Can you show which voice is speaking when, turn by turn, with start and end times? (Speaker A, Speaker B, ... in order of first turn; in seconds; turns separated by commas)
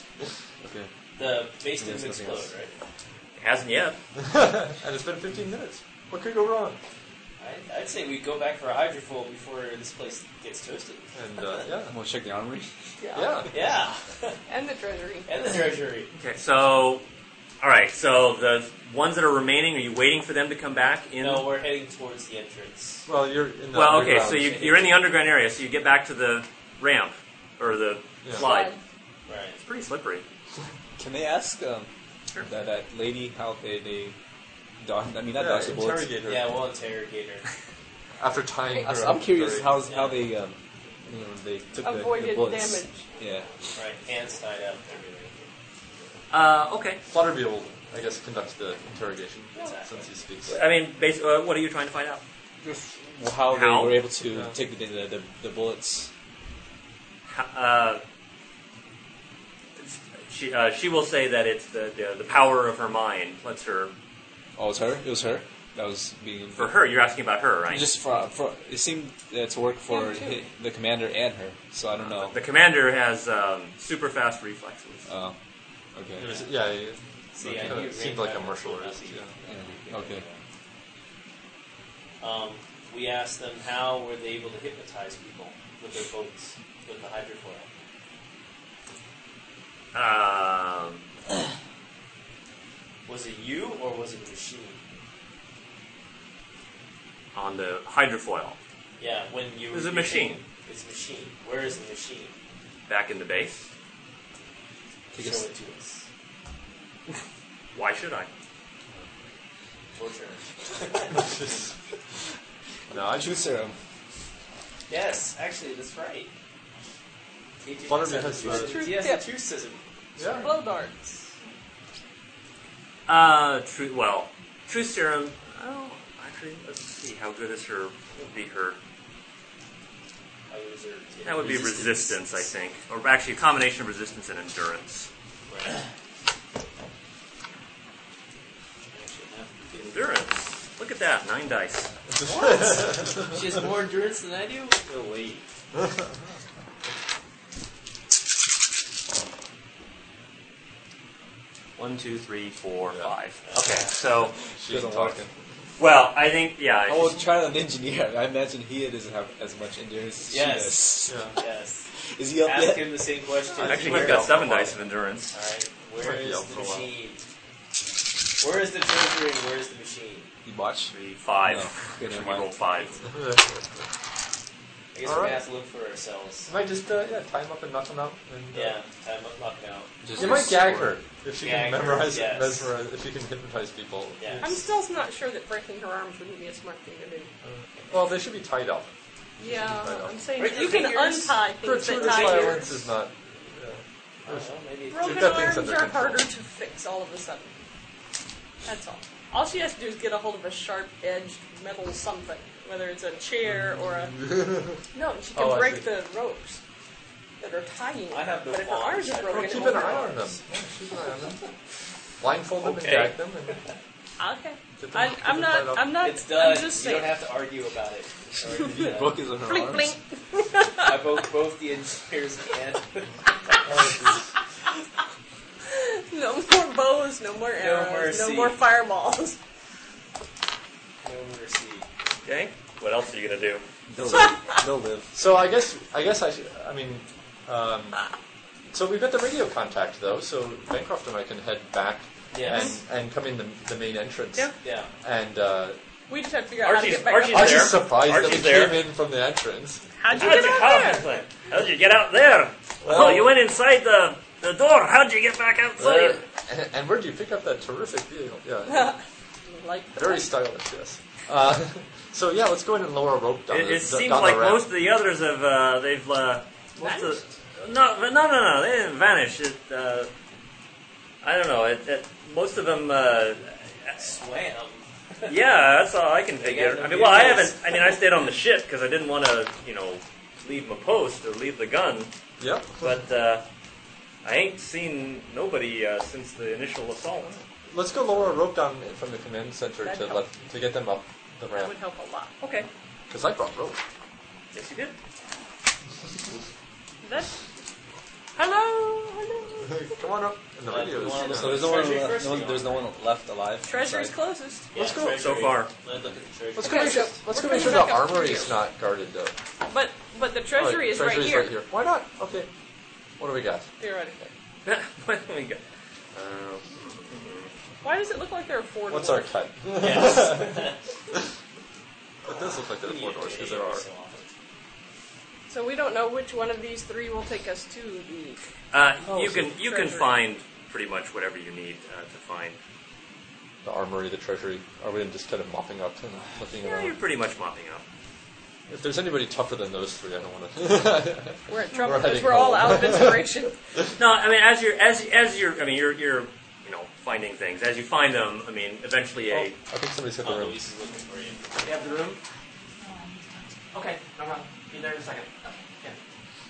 Speaker A: 0.6-0.9, Speaker B: 1.2-2.7, Speaker A: 1.7-2.5, Speaker C: 3.4-4.0, Speaker D: 4.2-6.8, Speaker B: 7.4-11.6, Speaker D: 11.1-11.9, Speaker A: 11.9-12.7, Speaker E: 13.0-13.4, Speaker D: 13.1-13.5, Speaker B: 13.5-14.4, Speaker E: 14.5-15.3, Speaker B: 15.3-16.1, Speaker C: 16.1-17.1, Speaker C: 17.6-21.5, Speaker B: 21.2-23.1, Speaker D: 23.1-24.6, Speaker C: 23.7-28.7, Speaker B: 24.2-25.1, Speaker E: 28.3-28.8, Speaker B: 29.3-29.6, Speaker C: 29.6-30.2, Speaker A: 31.0-31.9, Speaker A: 32.4-34.2, Speaker A: 34.8-36.1, Speaker D: 35.4-36.5, Speaker B: 36.2-37.5, Speaker D: 38.2-39.8, Speaker E: 38.7-39.1, Speaker A: 38.8-43.8, Speaker B: 39.9-40.3, Speaker E: 41.8-43.1, Speaker B: 43.7-45.5, Speaker C: 46.3-47.0, Speaker D: 47.1-50.6, Speaker B: 49.6-50.1, Speaker C: 50.5-52.2, Speaker A: 52.6-56.1, Speaker C: 53.5-54.0, Speaker C: 57.3-58.0, Speaker C: 59.8-63.9, Speaker A: 64.6-66.7, Speaker C: 66.5-67.9, Speaker A: 67.7-72.4, Speaker E: 69.9-70.3, Speaker C: 72.2-75.1, Speaker A: 75.1-75.4, Speaker A: 75.9-76.4, Speaker D: 76.2-79.3, Speaker B: 77.3-80.4, Speaker A: 77.4-77.8, Speaker A: 79.5-80.2, Speaker B: 82.2-87.7, Speaker C: 89.9-91.0, Speaker B: 93.1-94.8, Speaker C: 97.3-98.6, Speaker B: 99.0-102.3, Speaker C: 99.7-100.4, Speaker C: 102.9-103.7, Speaker A: 105.1-105.5, Speaker B: 105.1-106.0, Speaker C: 107.7-108.3, Speaker B: 109.9-111.4, Speaker D: 111.1-111.7, Speaker D: 112.9-113.3, Speaker A: 113.0-113.8, Speaker B: 114.9-116.3, Speaker B: 117.6-120.5, Speaker D: 117.9-118.9, Speaker E: 118.4-119.3, Speaker D: 120.2-120.5, Speaker E: 120.4-121.2, Speaker C: 123.1-128.8, Speaker B: 130.5-132.2, Speaker C: 131.2-135.1, Speaker B: 135.5-135.8, Speaker B: 138.9-139.6, Speaker C: 139.7-141.9, Speaker D: 142.2-143.2, Speaker B: 142.2-145.4, Speaker C: 151.8-154.3, Speaker B: 153.5-153.8, Speaker D: 154.6-155.3, Speaker A: 154.6-155.3, Speaker C: 155.8-157.2, Speaker A: 156.8-161.2, Speaker B: 160.3-161.8, Speaker D: 161.1-161.4, Speaker A: 162.0-163.2, Speaker B: 162.4-164.7, Speaker D: 163.5-164.7, Speaker C: 163.6-165.3, Speaker B: 165.3-167.2, Speaker D: 166.0-166.9, Speaker B: 168.4-170.3, Speaker A: 170.4-170.9, Speaker C: 170.9-173.0, Speaker A: 171.4-172.6, Speaker D: 173.1-173.4, Speaker B: 174.9-176.5, Speaker D: 175.0-175.4, Speaker D: 176.5-178.7, Speaker B: 178.5-180.1, Speaker A: 180.0-181.0, Speaker D: 180.2-184.7, Speaker B: 181.4-182.7, Speaker B: 184.2-184.5, Speaker E: 184.4-187.3, Speaker D: 187.9-188.9, Speaker E: 189.4-192.7, Speaker D: 189.4-190.7, Speaker B: 190.3-192.8, Speaker D: 191.6-196.3, Speaker B: 194.2-195.6, Speaker E: 194.9-197.6, Speaker E: 198.6-204.2, Speaker D: 203.4-204.8, Speaker E: 204.9-206.6, Speaker D: 205.3-205.9, Speaker E: 207.4-210.3, Speaker B: 208.1-210.4, Speaker D: 209.3-211.4, Speaker D: 212.2-213.6, Speaker C: 212.6-213.1, Speaker E: 214.2-217.1, Speaker D: 214.8-216.1, Speaker B: 216.0-219.2, Speaker A: 218.5-220.0, Speaker E: 218.7-221.1, Speaker B: 220.8-223.2, Speaker D: 223.6-224.3, Speaker E: 225.7-229.4, Speaker B: 227.6-228.6, Speaker B: 231.0-231.9, Speaker C: 232.2-233.6, Speaker A: 233.9-235.2, Speaker D: 234.0-234.3, Speaker D: 235.1-238.0, Speaker D: 238.7-245.8, Speaker B: 242.3-242.7, Speaker B: 244.6-244.9, Speaker E: 246.1-247.9, Speaker C: 246.6-248.9, Speaker D: 247.3-250.5, Speaker E: 250.0-251.1, Speaker C: 250.1-256.2, Speaker D: 252.8-253.4, Speaker D: 255.8-258.9, Speaker E: 258.7-260.3, Speaker D: 259.9-264.7, Speaker C: 263.5-270.1, Speaker E: 266.8-267.2, Speaker C: 271.2-274.1, Speaker B: 274.0-275.4, Speaker C: 275.3-282.1, Speaker B: 276.4-278.0, Speaker D: 282.4-282.9, Speaker C: 282.8-283.4, Speaker C: 284.2-287.4, Speaker D: 287.7-291.8, Speaker E: 289.8-290.2, Speaker E: 291.6-292.3, Speaker C: 292.4-292.7, Speaker D: 293.1-293.8, Speaker C: 294.5-294.9, Speaker E: 297.0-297.4, Speaker E: 298.4-299.9, Speaker D: 299.6-301.9, Speaker B: 300.7-302.9, Speaker A: 301.2-304.2, Speaker E: 303.7-304.7, Speaker B: 304.7-307.2, Speaker D: 304.7-305.5, Speaker C: 305.1-305.7, Speaker E: 306.6-308.6, Speaker D: 306.6-309.4, Speaker E: 309.7-311.6, Speaker D: 310.6-312.5, Speaker D: 313.2-313.7, Speaker E: 313.8-314.3, Speaker C: 314.6-315.6, Speaker C: 316.1-317.5, Speaker E: 317.8-319.3, Speaker D: 318.9-320.6, Speaker B: 319.8-320.8, Speaker D: 322.3-323.9, Speaker B: 322.8-324.3, Speaker E: 325.5-328.4, Speaker C: 328.7-332.6, Speaker D: 329.1-329.5, Speaker E: 329.6-330.2, Speaker D: 333.6-337.0, Speaker C: 336.6-337.8, Speaker D: 338.7-343.4, Speaker E: 341.5-343.5, Speaker C: 344.0-349.6, Speaker D: 349.3-350.7, Speaker B: 350.2-351.7, Speaker C: 351.6-352.2, Speaker C: 353.7-356.0